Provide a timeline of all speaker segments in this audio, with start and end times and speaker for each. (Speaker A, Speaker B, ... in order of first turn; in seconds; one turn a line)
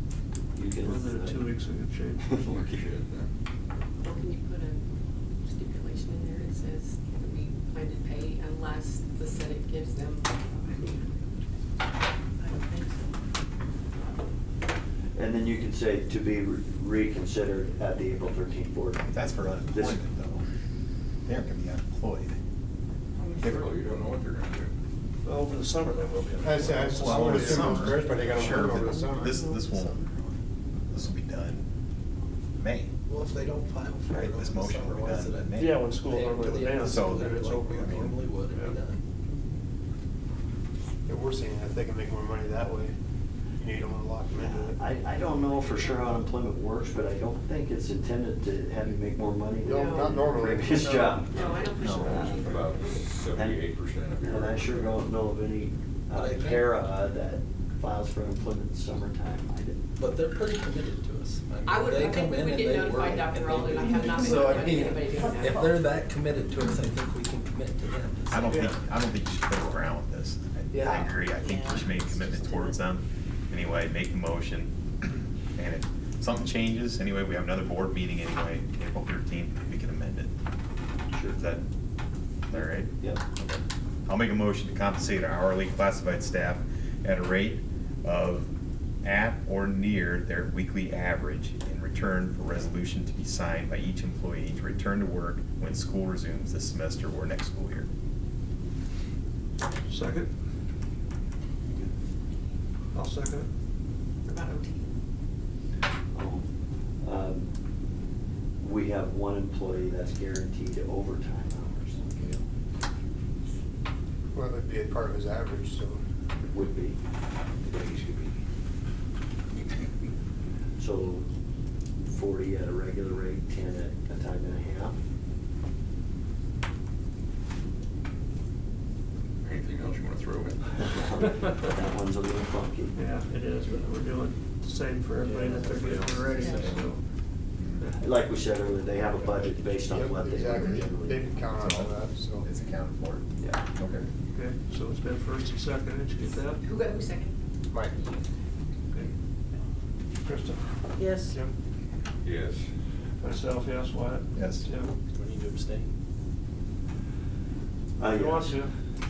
Speaker A: 0.6-1.5
Speaker B: 0.8-2.7
Speaker C: 2.4-3.3
Speaker D: 4.0-4.8
Speaker D: 5.4-11.5
Speaker A: 15.2-20.0
Speaker E: 19.1-20.4
Speaker E: 21.2-22.4
Speaker C: 23.2-24.7
Speaker E: 23.4-23.7
Speaker B: 25.2-27.4
Speaker F: 26.4-29.4
Speaker E: 26.8-31.7
Speaker G: 27.4-28.1
Speaker E: 32.6-32.9
Speaker G: 33.1-39.0
Speaker E: 34.1-38.2
Speaker B: 35.6-37.6
Speaker B: 38.5-38.8
Speaker F: 41.1-42.9
Speaker F: 43.6-44.8
Speaker A: 44.3-52.4
Speaker D: 45.3-46.0
Speaker F: 49.6-51.8
Speaker D: 49.7-50.6
Speaker D: 51.2-53.0
Speaker E: 51.8-52.3
Speaker C: 52.0-55.0
Speaker A: 53.3-53.6
Speaker A: 54.2-59.8
Speaker G: 56.1-56.8
Speaker G: 60.0-68.5
Speaker D: 61.6-65.8
Speaker E: 68.3-80.3
Speaker F: 68.5-68.7
Speaker F: 70.7-71.1
Speaker A: 81.1-81.4
Speaker E: 81.3-81.6
Speaker E: 82.5-88.5
Speaker A: 82.5-83.2
Speaker E: 89.0-97.9
Speaker B: 99.9-100.3
Speaker B: 102.9-103.5
Speaker D: 104.2-104.9
Speaker A: 106.1-106.5
Speaker A: 107.0-107.5
Speaker A: 108.6-112.4
Speaker F: 114.3-116.0
Speaker A: 116.5-117.0
Speaker A: 117.6-118.3
Speaker A: 120.8-121.2
Speaker A: 122.0-125.0
Speaker C: 129.4-131.0
Speaker A: 130.8-132.9
Speaker B: 132.9-137.0
Speaker E: 135.8-136.8
Speaker D: 136.3-136.7
Speaker E: 137.6-137.9
Speaker A: 138.0-141.3
Speaker F: 139.8-142.4
Speaker E: 140.5-140.9
Speaker E: 141.5-144.1
Speaker B: 144.3-146.6
Speaker D: 146.6-148.2
Speaker B: 150.2-150.6
Speaker B: 151.3-151.5
Speaker C: 152.2-152.7
Speaker B: 153.2-154.9
Speaker E: 154.3-154.7
Speaker G: 155.1-155.9
Speaker A: 158.0-158.6
Speaker B: 158.1-158.7